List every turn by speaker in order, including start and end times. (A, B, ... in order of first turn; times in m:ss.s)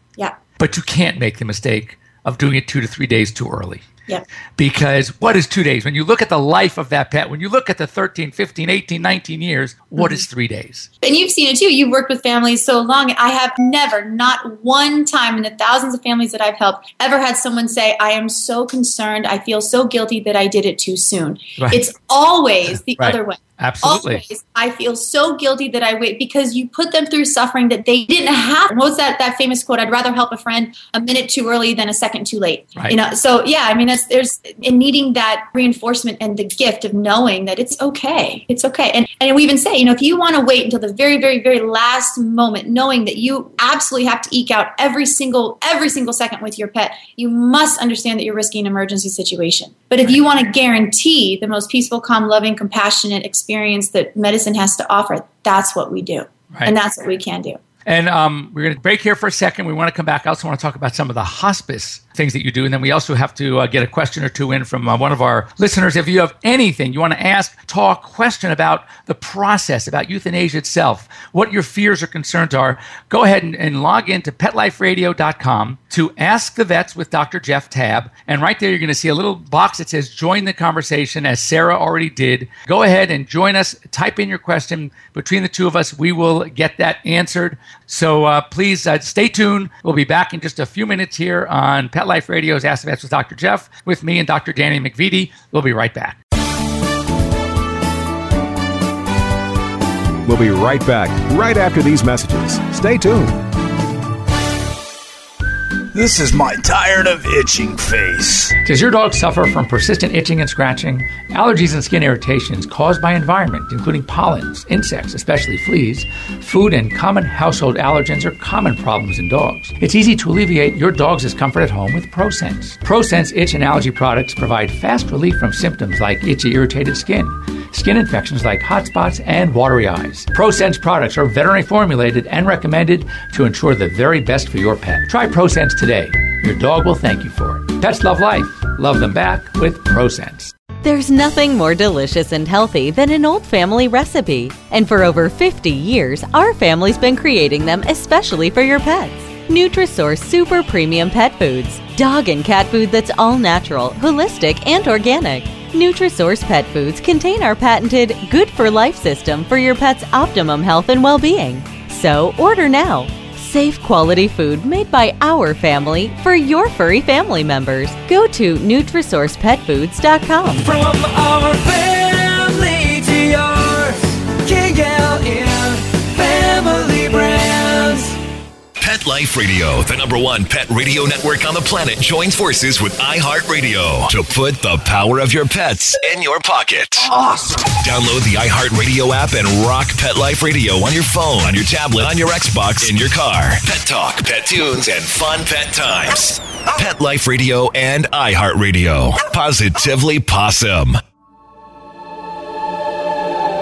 0:00.6-0:03.8 A
0:04.6-0:10.9 A
0:10.0-0:10.2 B
0:11.0-0:57.6 B
0:23.0-0:24.2 A
0:57.8-1:36.2 A
1:40.2-1:43.4 C
1:45.9-1:48.6 D
1:48.6-2:20.5 A
2:20.8-2:50.7 E
2:50.6-2:58.2 F
2:58.8-3:07.1 G
3:07.6-3:21.0 G